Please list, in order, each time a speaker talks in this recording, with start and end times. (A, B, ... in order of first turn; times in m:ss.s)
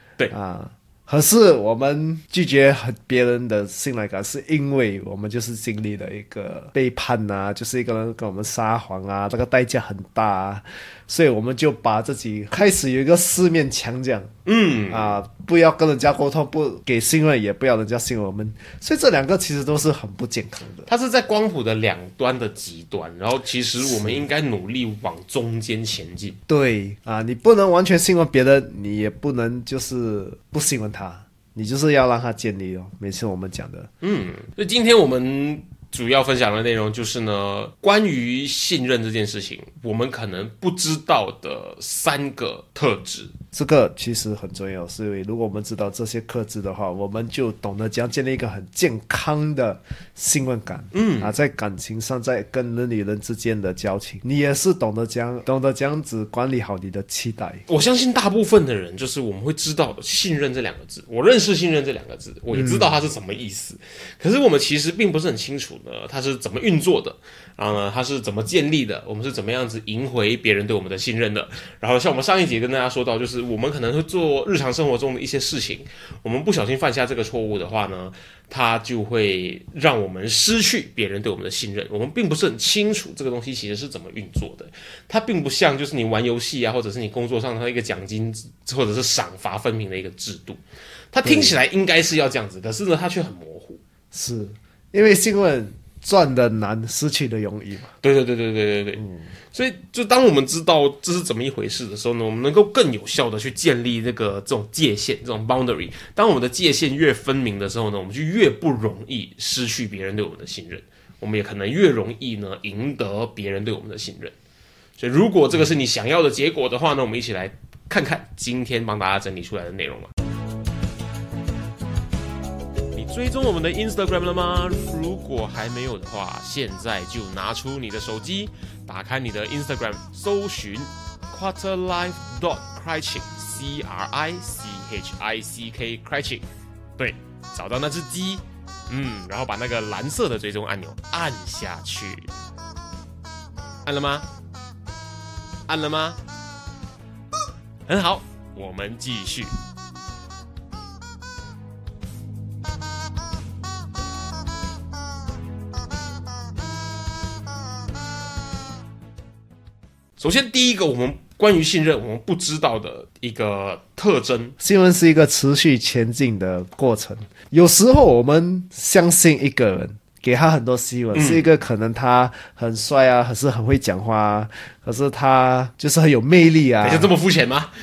0:00.3-0:14.3 A
0:14.4-0:15.2 B
0:14.9-0:20.9 A
0:20.9-0:26.4 B
0:23.8-0:24.2 A
0:26.5-0:33.9 A
0:34.0-0:43.3 B
0:43.5-0:57.6 A
0:50.9-0:51.3 B
0:57.7-1:30.6 B
1:02.5-1:02.9 A
1:31.1-1:33.8 B
1:31.2-1:31.6 A
1:34.1-1:37.9 A
1:38.0-1:54.3 B
1:39.0-1:39.3 A
1:55.0-2:00.1 B
2:02.9-2:16.4 B
2:17.0-2:22.3 B
2:23.8-2:24.3 B
2:25.7-2:26.2 B
2:27.8-2:29.5 B
2:40.2-2:44.6 B
2:44.6-2:57.1 A
2:51.1-2:51.4 B
2:56.8-2:57.7 B